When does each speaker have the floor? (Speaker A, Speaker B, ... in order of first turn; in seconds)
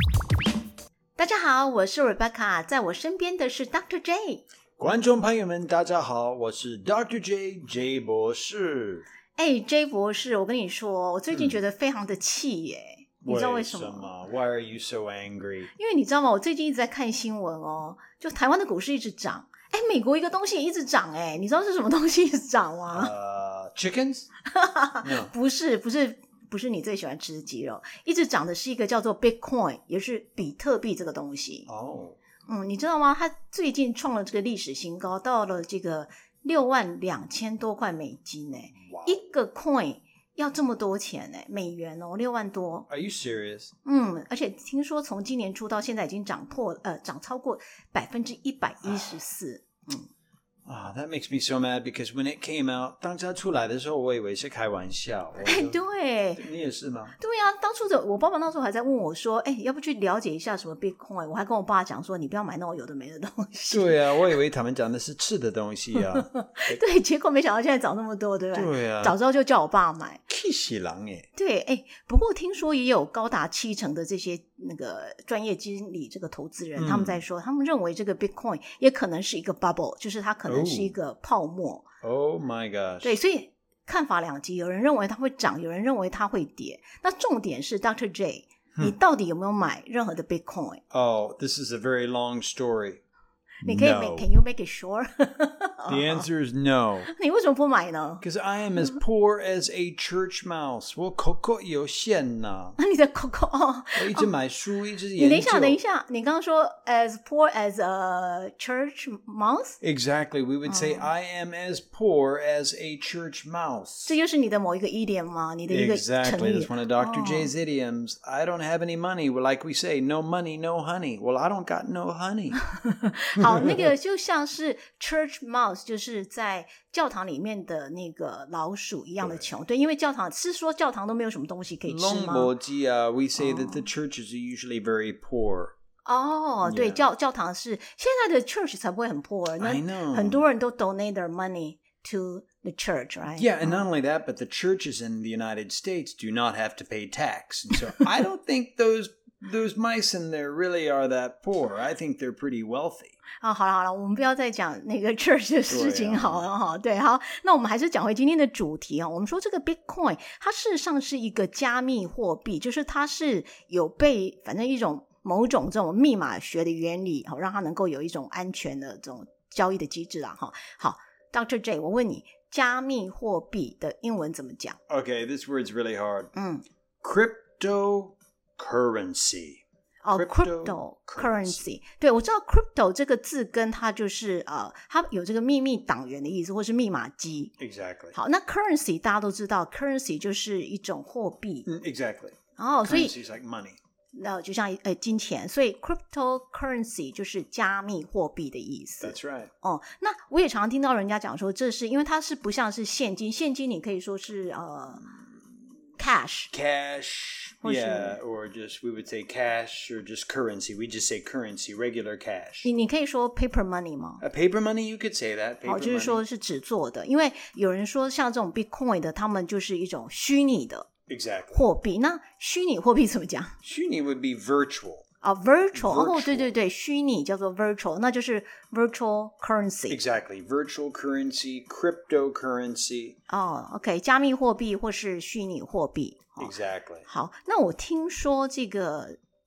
Speaker A: 1.2-4.5, 9.3-14.1, 15.7-23.1, 24.5-31.7, 32.5-42.9, 43.8-50.1, 55.4-56.4, 57.2-64.0, 65.9-70.2, 71.3-81.8, 83.0-90.8, 93.6-96.2, 97.1-98.2, 102.8-104.3, 105.2-109.8, 110.7-111.1, 114.0-117.5, 122.7-132.5, 133.4-133.8, 136.1-143.8, 153.4-174.8, 176.3-176.6, 180.0-187.5, 188.1-191.7, 192.6-193.1, 194.1-205.1, 206.0-206.5, 207.6-208.2, 212.6-214.2, 215.6-220.9, 221.5-223.6, 225.2-230.0, 233.3-236.5, 237.0-239.2
Speaker B: 4.8-9.1, 13.2-15.7, 22.9-24.3, 25.0-25.3, 31.7-32.2, 38.8-39.2, 42.9-43.7, 50.6-55.8, 56.4-57.1, 63.7-66.8, 68.5-69.2, 70.3-71.3, 76.8-77.2, 80.5-81.0, 82.0-83.2, 90.9-93.0, 93.6-94.3, 95.9-97.1, 98.2-102.8, 104.0-105.8, 109.8-114.2, 115.7-122.6, 123.4-123.9, 129.2-129.4, 131.9-135.7, 136.6-137.1, 139.6-140.4, 143.4-153.2, 155.7-156.4, 174.9-176.3, 177.0-181.7, 187.6-188.1, 191.7-193.8, 199.0-199.5, 205.1-205.4, 206.5-212.7, 214.2-216.2, 221.1-221.6, 223.6-225.1, 225.7-226.5, 229.9-233.2, 236.4-237.1